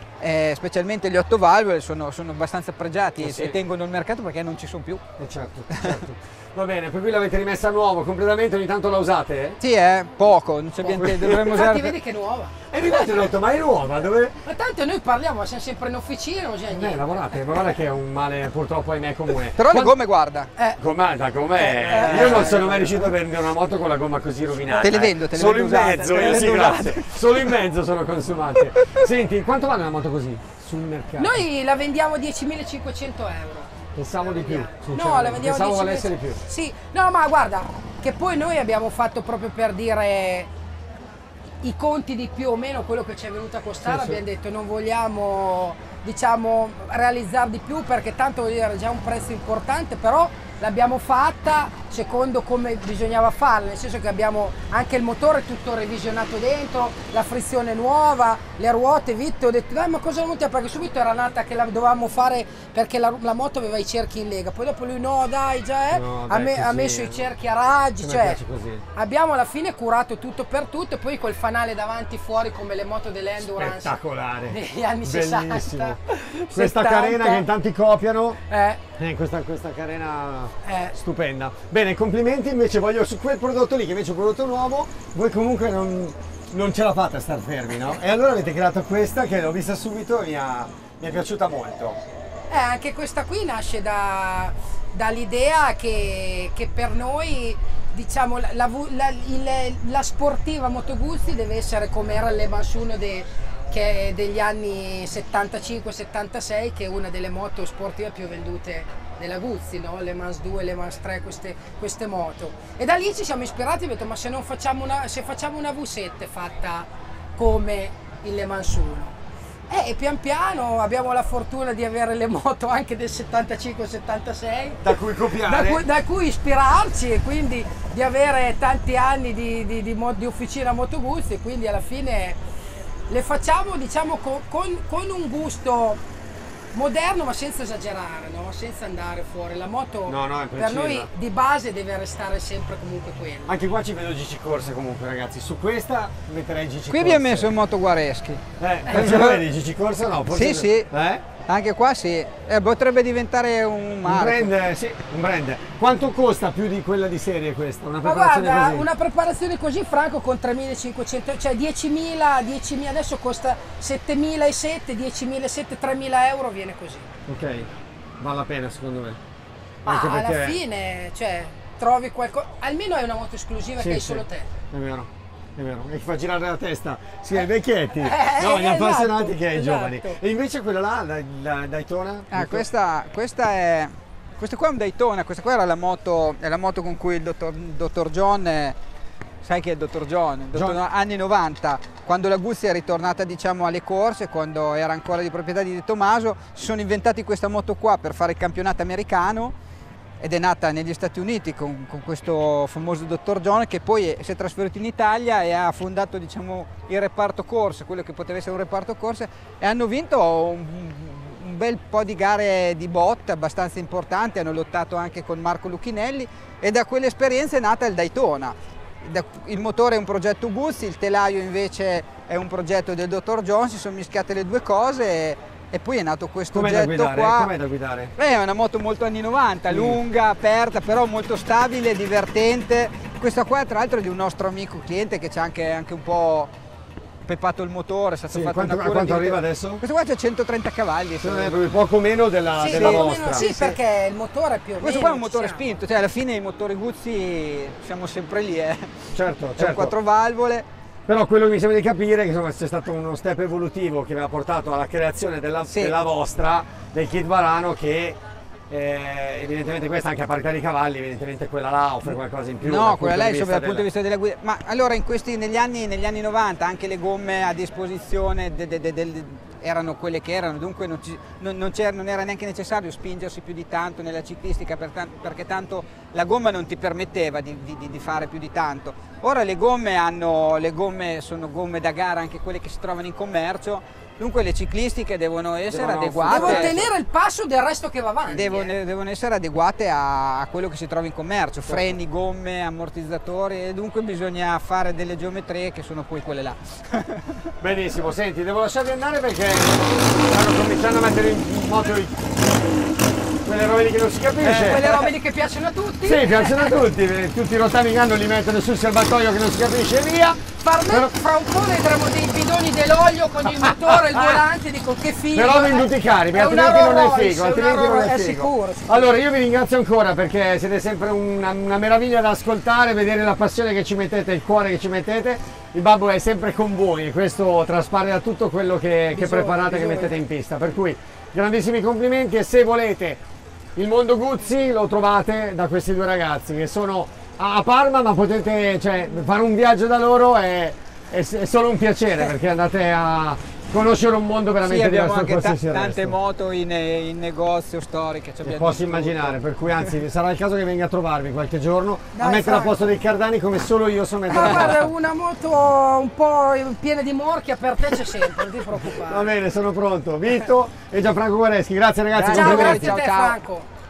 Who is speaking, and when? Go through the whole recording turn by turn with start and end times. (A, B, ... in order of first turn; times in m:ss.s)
0:00.2-0:05.0 A
0:03.2-0:03.6 B
0:05.2-0:09.6 B
0:05.7-0:06.0 A
0:09.6-0:12.0 A
0:10.8-0:11.7 B
0:11.4-0:13.2 C
0:12.7-0:14.4 B
0:14.4-0:17.4 C
0:16.7-0:20.0 B
0:19.6-0:20.5 A
0:20.8-0:31.4 B
0:21.6-0:23.0 C
0:21.9-0:22.7 A
0:24.7-0:27.2 A
0:31.2-0:33.7 C
0:34.0-0:36.4 B
0:34.3-0:40.5 C
0:41.6-1:08.4 C
0:43.8-0:44.2 B
1:05.9-1:07.3 B
1:08.0-1:08.8 B
1:08.9-1:14.0 C
1:13.4-1:16.0 B
1:14.5-1:17.5 C
1:16.5-1:18.4 B
1:18.5-1:18.8 C
1:19.0-1:32.0 B
1:20.6-1:20.9 C
1:32.5-1:59.2 C
1:59.7-2:12.4 C
2:04.8-2:05.8 B
2:13.1-2:16.0 C
2:16.7-2:23.6 C
2:20.1-2:21.1 B
2:23.5-2:27.5 B
2:26.9-2:29.4 A
2:28.6-2:31.2 B
2:30.3-2:30.9 A
2:31.5-2:34.5 A
2:34.0-2:38.9 B
2:38.0-2:47.1 C
2:47.3-2:47.7 B
2:48.2-2:49.2 B
2:49.8-2:50.6 B
2:49.8-2:54.5 C
2:53.8-3:02.7 B
2:58.0-3:00.2 C
3:02.3-3:08.8 A
3:09.4-3:19.6 A
3:20.2-3:47.5 A
3:46.5-3:48.1 B
3:48.2-3:56.5 A
3:49.7-3:50.0 B
3:57.2-4:01.6 A
3:58.3-3:59.8 B
4:01.2-4:03.5 B
4:02.6-4:05.6 C
4:02.7-4:03.8 A
4:04.8-4:10.7 A
4:09.1-4:10.0 B
4:11.1-4:18.2 B
4:15.7-4:15.9 A
4:18.7-4:23.9 B
4:22.6-4:46.8 A
4:45.7-4:46.9 B
4:46.3-4:48.7 C
4:48.3-4:57.4 A
4:51.7-4:52.0 B
4:57.6-5:02.3 B
5:03.4-5:04.8 B
5:04.4-5:06.8 C
5:04.7-5:05.1 A
5:06.0-5:11.1 B
5:10.6-5:19.1 C
5:13.5-5:14.4 B
5:15.3-5:33.2 B
5:29.1-5:30.2 C
5:33.8-5:46.2 B
5:44.6-5:49.4 A
5:48.4-5:54.9 B
5:52.1-5:52.8 C
5:54.3-5:59.3 C
5:54.4-5:54.7 A
5:58.8-6:03.0 B
6:02.1-6:03.4 A
6:02.3-6:03.7 C